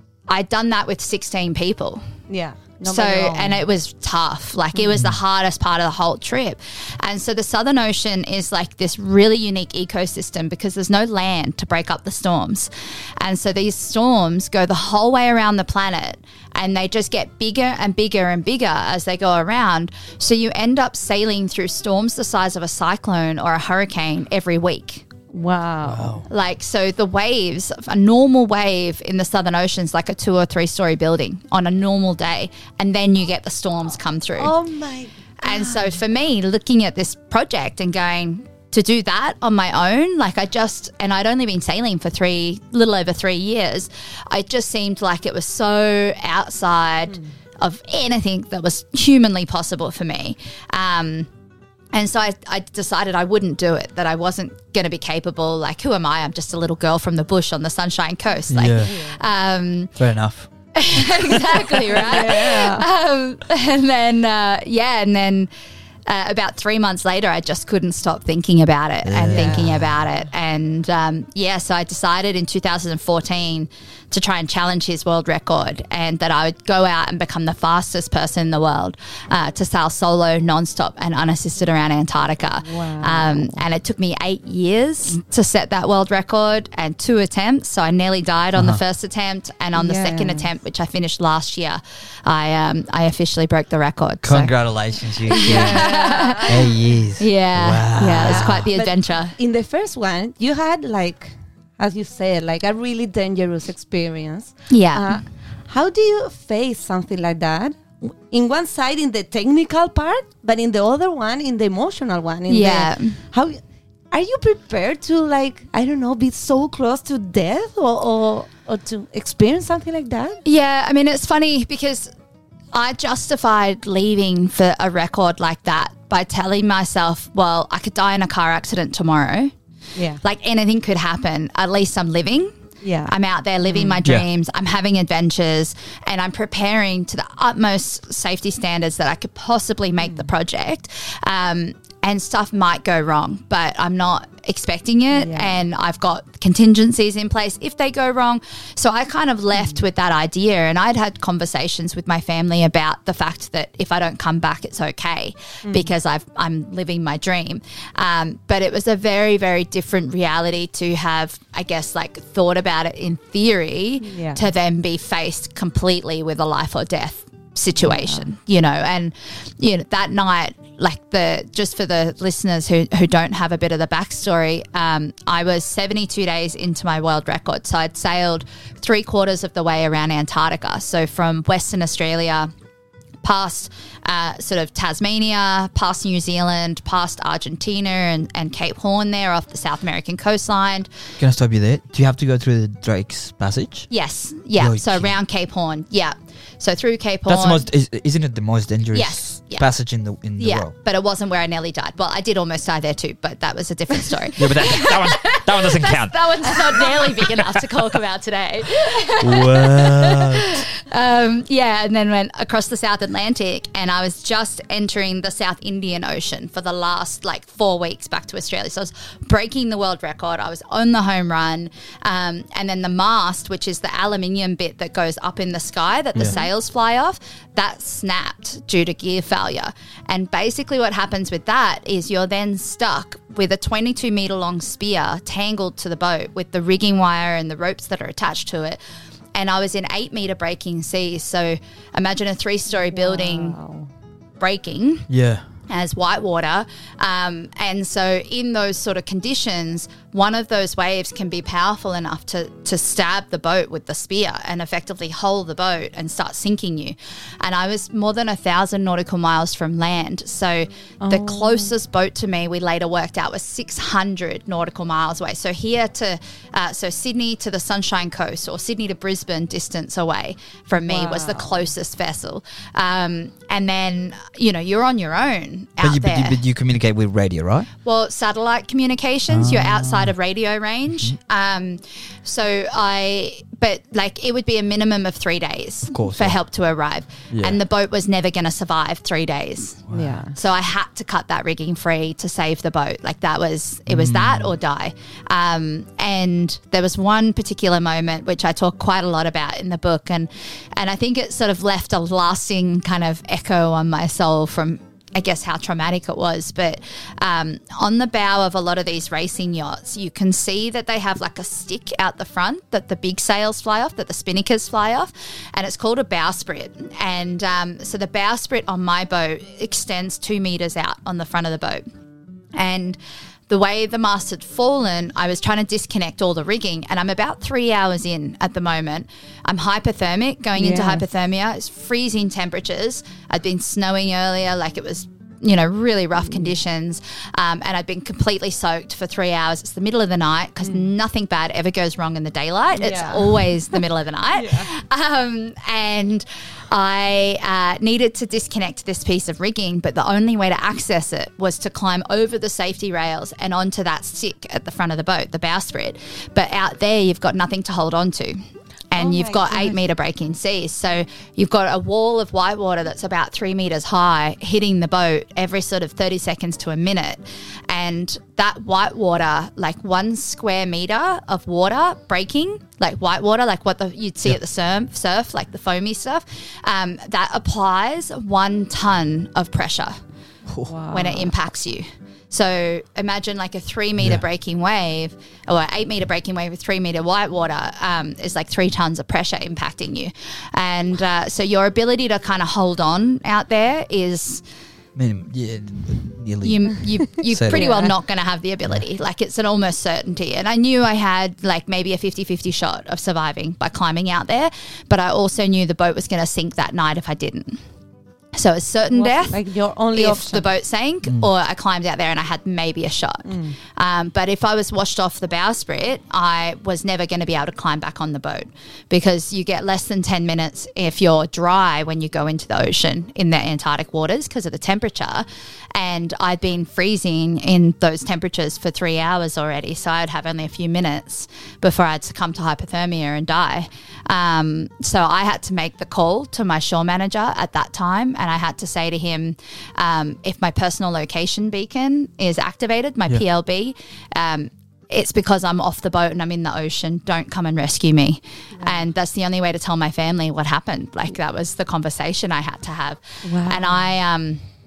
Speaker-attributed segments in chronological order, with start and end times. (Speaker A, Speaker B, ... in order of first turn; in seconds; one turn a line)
Speaker A: 0.3-2.1
Speaker B: 2.3-3.6
Speaker A: 2.8-25.1
Speaker B: 25.3-26.2
Speaker C: 25.8-26.2
Speaker A: 26.3-34.5
Speaker B: 34.4-36.0
Speaker A: 35.4-51.3
Speaker A: 51.9-60.0
Speaker C: 58.5-58.9
Speaker B: 58.8-59.2
Speaker C: 60.0-61.5
Speaker A: 60.7-65.5
Speaker B: 61.9-62.9
Speaker A: 66.1-94.5
Speaker C: 69.0-70.0
Speaker B: 69.3-69.7
Speaker B: 82.6-83.6
Speaker B: 89.7-90.5
Speaker C: 94.2-95.9
Speaker A: 95.2-99.3
Speaker B: 95.3-96.7
Speaker C: 96.5-98.7
Speaker B: 98.1-113.6
Speaker A: 104.7-105.2
Speaker A: 112.5-113.2
Speaker B: 114.1-120.4
Speaker A: 120.4-122.1
Speaker A: 122.7-129.5
Speaker B: 129.9-130.2
Speaker A: 130.2-132.5
Speaker B: 132.8-134.0
Speaker A: 133.1-182.5
Speaker B: 140.0-140.3
Speaker B: 145.1-145.6
Speaker B: 149.5-149.8
Speaker B: 155.6-155.9
Speaker B: 164.0-164.4
Speaker B: 167.8-168.3
Speaker A: 183.2-190.9
Speaker C: 191.2-193.9
Speaker A: 193.9-197.6
Speaker C: 194.6-195.1
Speaker C: 197.3-200.7
Speaker A: 198.9-199.7
Speaker A: 200.4-238.8
Speaker C: 204.4-207.4
Speaker C: 209.2-210.6
Speaker B: 226.2-226.5
Speaker A: 239.3-243.6
Speaker B: 242.9-243.9
Speaker A: 244.4-245.1
Speaker C: 245.1-245.4
Speaker A: 245.7-276.4
Speaker B: 261.0-261.7
Speaker B: 270.7-271.6
Speaker C: 275.8-277.7
Speaker A: 277.8-321.8
Speaker C: 279.3-280.1
Speaker C: 285.9-286.4
Speaker C: 287.3-287.6
Speaker C: 289.9-290.2
Speaker B: 289.9-290.3
Speaker C: 293.9-294.5
Speaker A: 322.5-323.0
Speaker A: 323.5-380.0
Speaker B: 330.5-331.0
Speaker B: 336.3-336.5
Speaker B: 340.6-340.9
Speaker B: 342.7-343.8
Speaker B: 344.3-344.7
Speaker B: 358.9-359.8
Speaker B: 380.6-381.3
Speaker A: 380.9-394.4
Speaker C: 394.9-397.8
Speaker A: 396.4-407.6
Speaker B: 397.5-397.9
Speaker A: 408.3-409.4
Speaker B: 408.9-410.5
Speaker A: 409.9-454.4
Speaker B: 413.2-413.6
Speaker B: 453.2-453.8